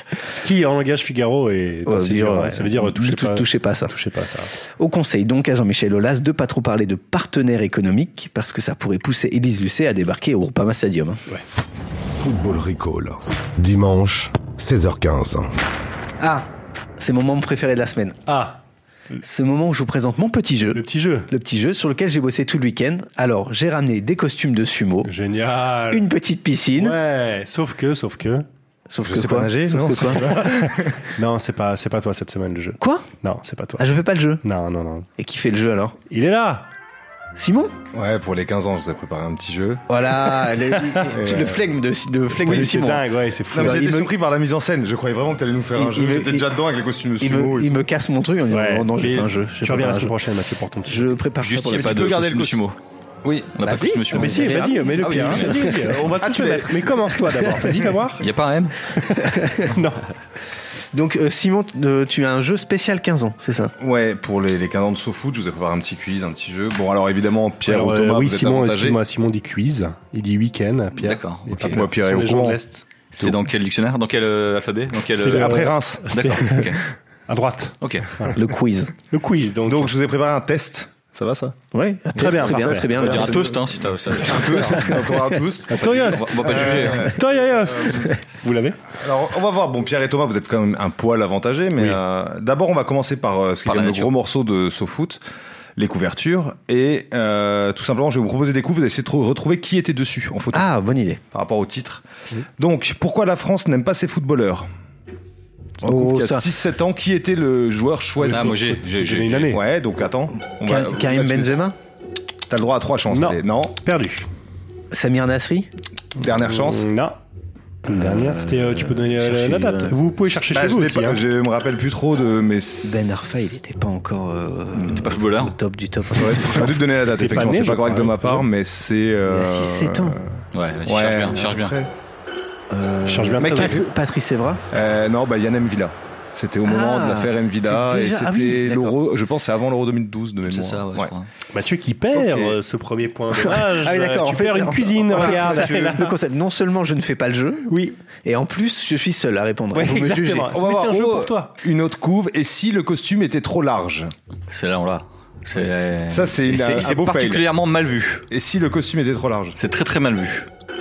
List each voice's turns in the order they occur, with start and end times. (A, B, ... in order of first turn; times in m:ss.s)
0:00.2-0:04.5 A
0:01.9-0:03.9 B
0:04.8-0:11.2 B
0:12.1-0:15.5 C
0:16.2-0:18.2 B
0:18.3-0:18.6 A
0:19.2-0:25.1 B
0:20.7-0:21.3 A
0:25.0-0:26.1 A
0:25.9-0:27.0 B
0:26.8-0:28.5 A
0:28.9-0:30.3 B
0:29.0-0:30.9 D
0:30.3-0:33.9 A
0:32.8-0:33.1 B
0:33.8-0:34.4 B
0:34.4-0:35.1 A
0:35.2-0:36.0 B
0:36.1-0:36.7 A
0:37.4-0:37.7 B
0:37.9-0:39.8 D
0:39.9-0:44.1 B
0:40.7-0:41.1 A
0:41.1-0:41.6 D
0:42.4-0:42.9 D
0:42.5-0:43.9 A
0:43.5-0:47.8 D
0:45.8-0:46.5 B
0:47.2-0:50.2 B
0:48.5-0:51.2 A
0:50.9-0:52.5 B
0:51.4-0:52.8 E
0:51.7-0:52.5 D
0:53.2-0:53.6 D
0:53.6-0:54.7 E
0:53.6-0:56.1 B
0:54.1-0:58.2 A
0:54.9-0:56.9 D
0:58.2-0:58.8 E
0:59.2-0:59.8 B
0:59.6-1:00.1 A
1:00.9-1:03.7 B
1:03.8-1:09.0 D
1:07.7-1:12.8 A
1:11.0-1:11.8 E
1:11.6-1:12.6 D
1:13.2-1:16.8 E
1:15.1-1:16.1 D
1:15.2-1:16.7 A
1:17.3-1:18.4 A
1:17.8-1:18.1 E
1:18.3-1:18.9 B
1:19.1-1:19.9 A
1:19.6-1:21.6 D
1:21.7-1:23.6 B
1:22.2-1:23.0 A
1:22.9-1:27.2 D
1:23.0-1:25.0 E
1:24.4-1:25.4 B
1:25.7-1:28.8 A
1:25.8-1:27.2 E
1:28.9-1:35.2 D
1:33.7-1:34.1 E
1:35.8-1:40.7 D
1:40.5-1:41.2 B
1:41.3-1:42.0 D
1:42.6-1:44.7 D
1:45.8-1:46.5 B
1:45.8-1:48.6 D
1:48.2-1:49.6 A
1:48.3-1:49.5 E
1:49.4-1:51.6 D
1:50.6-1:51.8 B
1:52.5-1:53.8 D
1:53.1-1:54.3 A
1:54.9-1:55.7 B
1:56.2-1:56.9 D
1:56.3-1:57.2 A
1:57.9-2:00.0 B
1:57.9-2:01.2 A
2:00.5-2:03.1 D
2:02.8-2:06.8 B
2:04.7-2:05.6 E
2:06.1-2:11.9 D
2:07.0-2:08.5 A
2:09.3-2:10.2 B
2:10.5-2:11.7 E
2:12.7-2:14.6 B
2:13.1-2:13.8 A
2:13.4-2:13.9 D
2:14.7-2:21.1 D
2:16.6-2:19.0 B
2:20.5-2:21.3 E
2:21.5-2:26.1 A
2:22.2-2:22.6 D
2:23.3-2:30.6 B
2:25.1-2:26.1 D
2:27.7-2:28.0 A
2:29.7-2:31.5 A
2:30.5-2:34.1 D
2:34.5-2:38.2 E
2:36.1-2:37.5 D
2:38.3-2:39.6 D
2:39.6-2:40.5 E